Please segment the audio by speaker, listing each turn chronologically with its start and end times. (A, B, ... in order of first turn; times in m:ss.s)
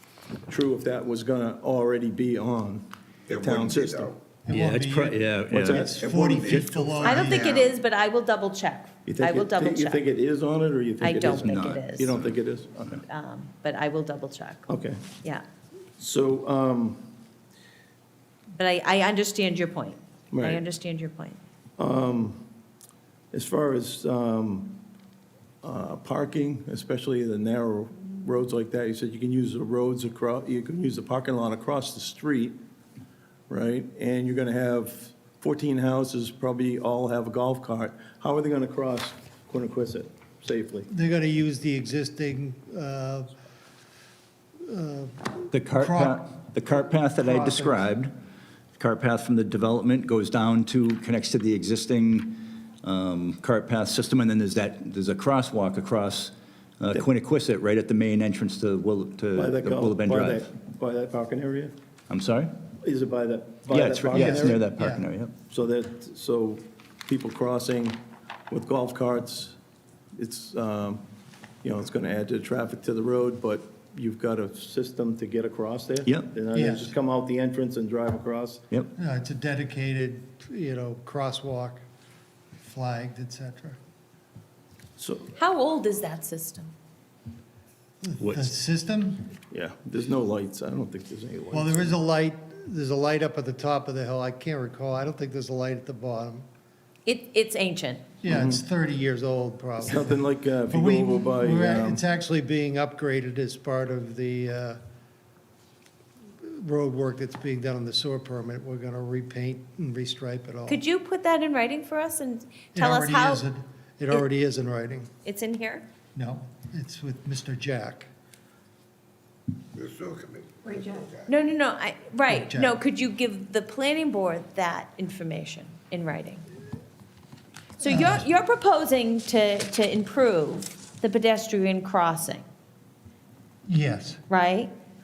0:00.5-0:04.1 A
0:03.3-0:04.1 B
0:04.4-0:07.7 C
0:04.5-0:06.0 D
0:05.5-0:06.5 A
0:06.3-0:07.6 B
0:07.0-0:10.0 E
0:09.0-0:13.0 A
0:11.0-0:12.2 E
0:11.4-0:11.8 D
0:13.0-0:14.7 E
0:14.7-0:15.0 A
0:16.0-0:17.0 A
0:18.6-0:21.4 E
0:20.3-0:20.6 A
0:21.8-0:22.4 A
0:23.3-0:24.8 A
0:25.6-0:32.6 A
0:33.5-0:40.9 A
0:40.9-0:43.3 C
0:44.6-0:46.3 C
0:45.5-0:48.1 D
0:47.2-0:47.9 C
0:48.8-1:00.4 D
0:59.3-1:01.7 A
1:02.1-1:02.5 D
1:02.8-1:04.7 A
1:03.7-1:05.3 D
1:04.1-1:05.0 C
1:05.5-1:08.0 A
1:08.5-1:09.6 A
1:10.1-1:11.0 A
1:11.6-1:18.6 A
1:16.0-1:16.3 D
1:16.5-1:16.9 C
1:19.0-1:21.8 C
1:22.6-1:23.8 C
1:25.0-1:25.3 A
1:25.4-1:26.7 E
1:28.0-1:29.3 C
1:28.2-1:28.5 D
1:29.5-1:31.9 A
1:31.5-1:36.4 C
1:37.0-1:38.1 E
1:38.2-1:40.2 C
1:38.3-1:38.6 A
1:39.8-1:42.0 A
1:40.7-1:44.8 C
1:46.4-1:50.8 C
1:50.7-1:53.4 E
1:52.7-1:55.1 C
1:55.2-1:55.8 E
1:56.1-1:58.1 C
1:59.8-2:00.4 B
2:00.6-2:06.4 E
2:02.3-2:02.7 C
2:07.8-2:12.4 E
2:07.8-2:08.3 C
2:13.7-2:14.2 C
2:14.3-2:14.7 E